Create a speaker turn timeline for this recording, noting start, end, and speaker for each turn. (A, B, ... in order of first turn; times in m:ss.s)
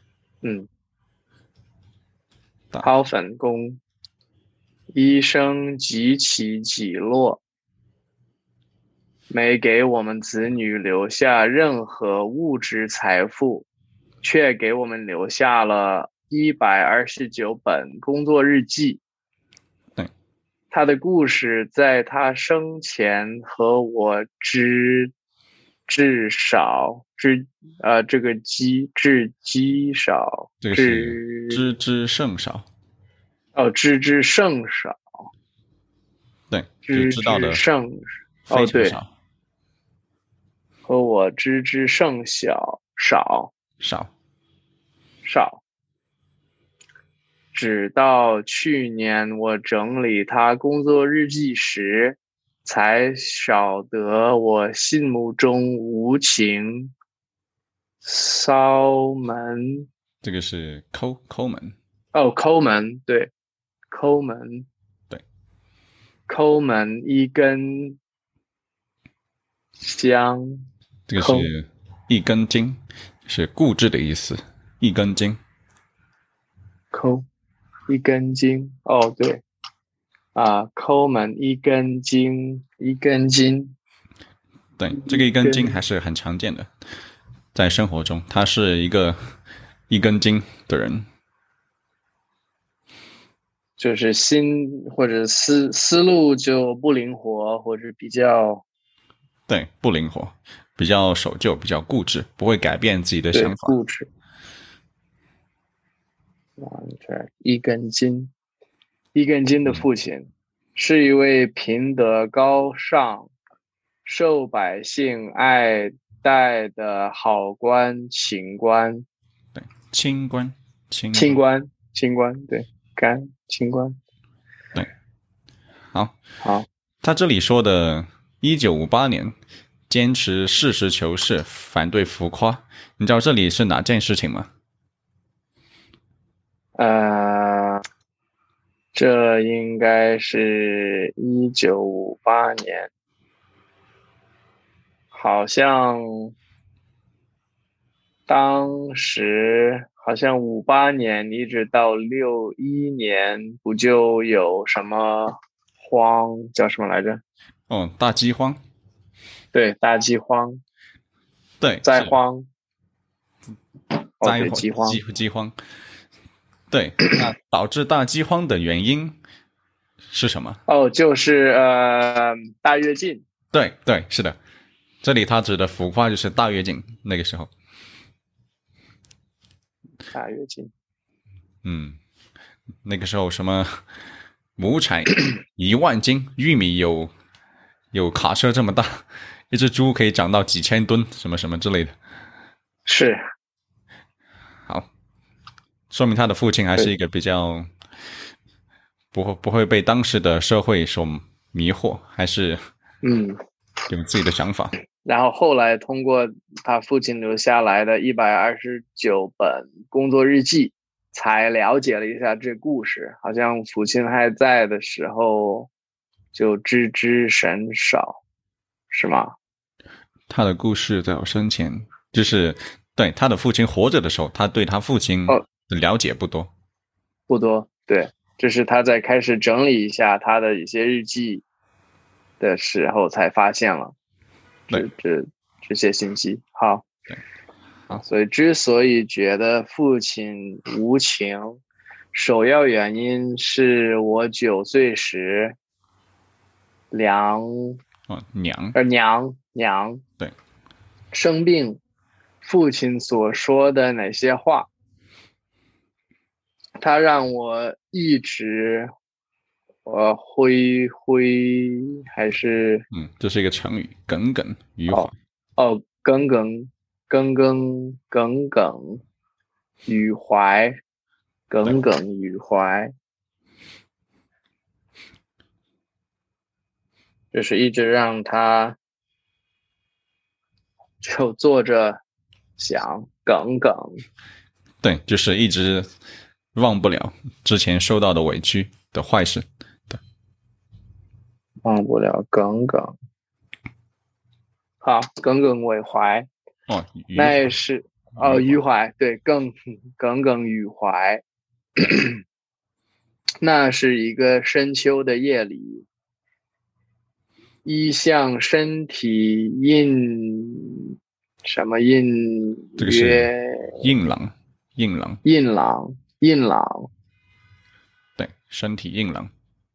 0:00.4-0:00.7 A
0:02.8-0:03.8 A
0:04.9-0:07.4 A
0:09.3-0:13.7 A
0:14.2-0:19.0 A
0:20.7-0:25.1 A
0:25.9-0:31.6 A
0:30.6-0:32.7 B
0:33.6-0:35.0 A
0:36.5-0:37.6 B
0:36.9-0:39.0 A
0:38.5-0:39.1 B
0:40.9-0:43.5 A
0:43.8-0:44.1 B
0:45.2-0:45.6 A
0:47.5-0:56.9 A
0:58.0-0:59.9 A
1:00.2-1:01.8 B
1:02.1-1:03.3 A
1:03.9-1:04.7 A
1:06.3-1:08.0 A
1:09.8-1:11.5 A
1:11.1-1:15.4 B
1:16.9-1:17.2 A
1:17.9-1:19.4 A
1:20.4-1:23.8 A
1:24.8-1:26.7 B
1:24.9-1:25.8 A
1:27.5-1:29.3 B
1:29.9-1:31.1 B
1:33.8-1:38.6 A
1:39.5-1:43.8 B
1:43.3-1:44.1 A
1:46.6-1:48.3 A
1:49.1-1:53.3 A
1:54.0-1:59.0 A
1:59.5-2:01.4 B
2:01.1-2:04.0 A
2:05.9-2:06.2 B
2:06.4-2:06.7 A
2:07.0-2:09.3 B
2:09.9-2:14.5 B
2:16.8-2:17.8 A
2:18.9-2:22.9 A
2:25.1-2:26.3 A
2:28.3-2:37.2 A
2:37.7-2:38.6 B
2:39.5-2:40.6 A
2:41.6-2:42.1 B
2:41.8-2:42.5 A
2:44.2-2:45.0 A
2:44.2-2:45.6 B
2:46.7-2:49.2 B
2:50.1-2:50.6 B
2:50.7-2:53.2 A
2:53.5-2:54.4 B
2:55.0-2:57.5 B
3:00.1-3:00.7 A
3:01.6-3:02.0 B
3:02.8-3:03.9 B
3:04.6-3:07.1 B
3:07.9-3:12.0 B
3:12.9-3:13.2 A
3:15.9-3:17.7 B
3:19.1-3:22.6 B
3:23.0-3:23.4 A
3:23.9-3:24.8 B
3:25.0-3:35.7 A
3:36.3-3:38.2 A
3:38.9-3:39.3 A
3:40.3-3:46.5 B
3:47.3-3:51.4 A
3:52.4-3:53.9 A
3:54.7-3:56.9 A
3:57.9-4:01.6 A
4:02.1-4:05.6 A
4:06.9-4:07.8 A
4:08.1-4:08.8 B
4:08.8-4:10.0 A
4:11.1-4:11.8 A
4:12.4-4:14.7 A
4:16.8-4:18.9 A
4:19.9-4:22.9 A
4:22.9-4:25.1 B
4:24.9-4:29.0 A
4:29.9-4:30.8 A
4:31.5-4:32.9 A
4:37.3-4:38.8 A
4:41.0-4:42.0 A
4:42.6-4:44.0 A
4:44.8-4:45.9 B
4:46.5-4:50.0 B
4:51.6-4:52.9 A
4:54.8-4:56.3 A
4:56.7-4:57.5 B
4:57.1-5:01.2 A
4:58.2-4:58.5 B
5:01.8-5:02.2 A
5:03.4-5:05.9 A
5:07.6-5:13.8 A
5:12.8-5:15.2 B
5:15.2-5:16.9 A
5:18.2-5:19.3 B